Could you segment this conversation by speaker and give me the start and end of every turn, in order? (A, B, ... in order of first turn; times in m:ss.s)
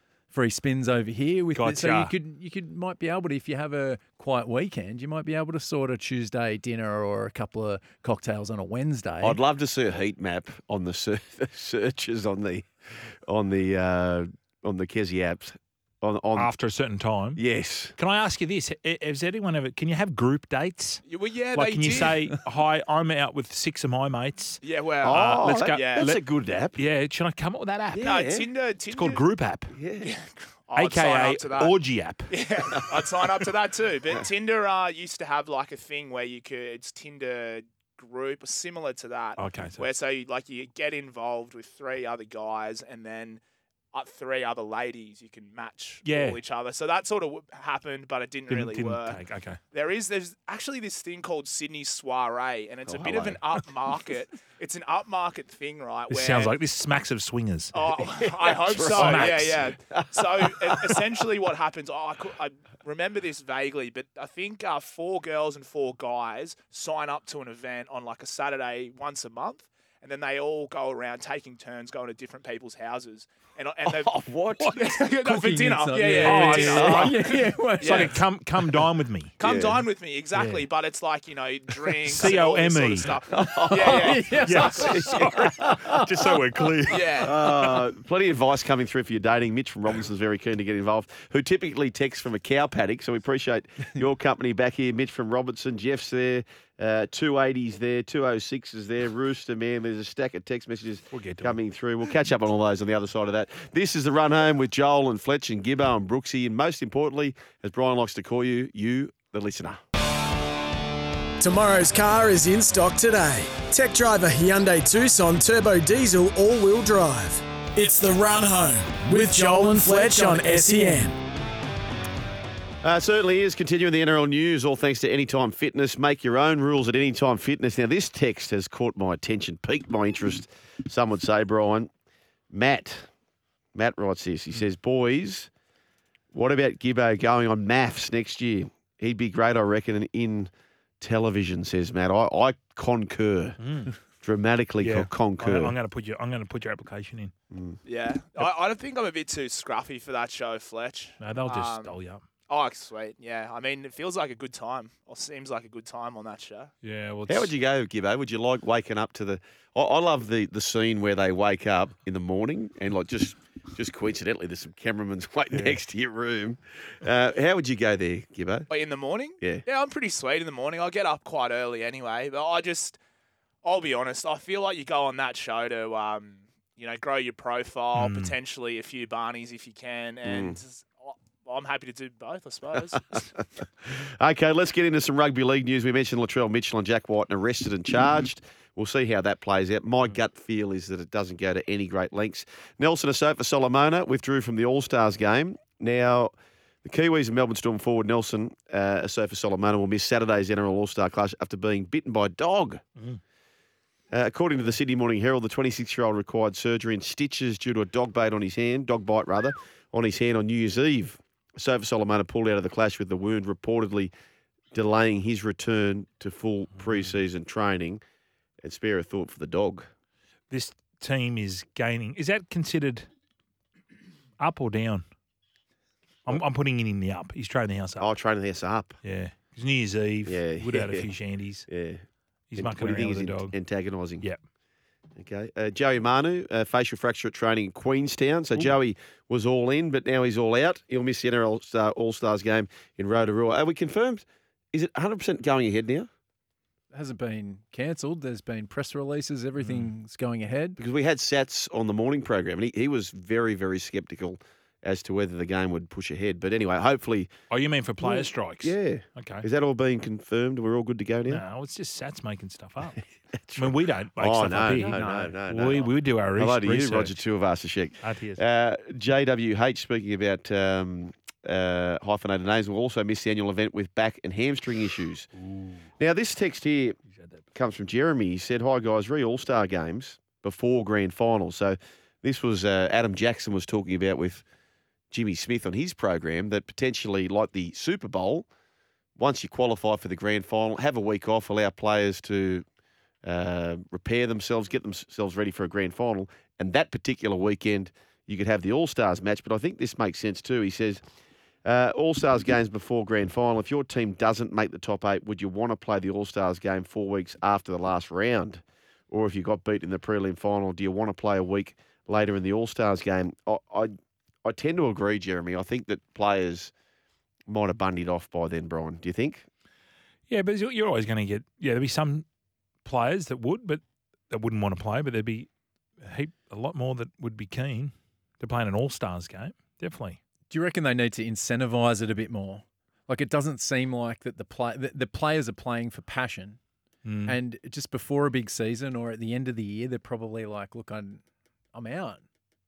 0:00.3-0:09.4 A
0:01.6-0:02.1 B
0:09.2-0:16.5 C
0:16.4-0:17.4 B
0:17.4-0:18.0 C
0:18.0-0:26.2 B
0:21.0-0:22.2 D
0:24.6-0:26.1 D
0:25.0-0:26.8 C
0:26.8-0:28.0 B
0:27.9-0:28.5 C
0:28.0-0:29.2 D
0:28.9-0:29.8 B
0:29.7-0:30.1 C
0:30.0-0:31.7 D
0:30.8-0:32.3 B
0:32.3-0:43.4 D
0:39.4-0:39.9 B
0:43.9-0:49.2 D
0:46.0-0:46.4 B
0:48.5-0:49.6 B
0:49.7-0:56.5 D
0:52.9-0:53.4 C
0:56.1-0:58.1 B
0:57.7-1:14.2 D
0:58.2-0:59.4 C
0:58.7-0:59.7 B
0:59.9-1:01.0 C
1:13.8-1:14.8 C
1:14.6-1:14.9 B
1:14.7-1:18.2 D
1:15.2-1:18.2 A
1:16.0-1:17.2 B
1:16.6-1:17.1 C
1:17.8-1:19.4 B
1:19.4-1:25.4 D
1:19.4-1:19.8 C
1:20.3-1:20.7 B
1:22.0-1:23.2 B
1:23.3-1:24.2 C
1:23.7-1:26.4 A
1:24.4-1:27.8 B
1:24.8-1:25.7 C
1:26.9-1:27.4 D
1:27.2-1:49.8 C
1:41.1-1:41.6 B
1:51.4-2:01.2 E
2:02.8-2:11.9 C
2:12.5-2:13.1 C
2:13.8-2:15.5 C
2:16.3-2:23.6 C
2:23.6-2:23.9 B
2:24.2-2:25.8 C
2:24.8-2:27.3 B
2:27.5-2:27.8 C
2:27.9-2:32.0 D
2:31.2-2:32.2 B
2:32.5-2:36.7 D
2:36.8-2:37.5 B
2:37.3-2:48.7 C
2:48.7-2:53.0 D
2:53.6-3:03.2 D
2:58.0-2:58.4 B
3:00.2-3:00.6 C
3:03.0-3:03.3 C
3:03.8-3:16.3 C
3:16.8-3:22.8 C
3:24.1-3:34.1 C
3:34.7-3:38.0 C
3:38.6-3:39.9 C
3:40.5-3:43.1 B
3:44.4-3:45.0 B
3:46.3-3:48.1 B
3:48.0-3:48.9 C
3:49.0-3:51.7 B
3:50.3-3:51.1 C
3:51.7-3:52.0 C
3:52.5-3:53.5 B
3:52.6-3:54.3 C
3:55.2-4:06.1 C
4:06.9-4:10.8 A
4:09.6-4:09.9 B
4:10.8-4:17.3 C
4:17.5-4:19.5 B
4:18.0-4:21.4 C
4:21.3-4:27.1 B
4:23.3-4:35.3 C
4:24.8-4:25.8 A
4:28.0-4:28.4 B
4:35.4-4:35.9 B
4:36.0-4:37.0 C
4:37.2-4:37.4 B
4:37.6-4:44.4 C
4:45.1-4:48.5 C
4:49.2-4:52.6 C
4:53.2-5:01.0 C
5:01.6-5:13.9 C
5:14.4-5:16.7 C
5:17.5-5:19.5 C
5:20.3-5:22.2 B
5:22.8-5:25.5 B
5:26.0-5:30.2 B
5:30.5-5:36.6 A
5:37.0-5:37.4 B
5:37.3-5:41.2 A
5:41.7-5:42.2 A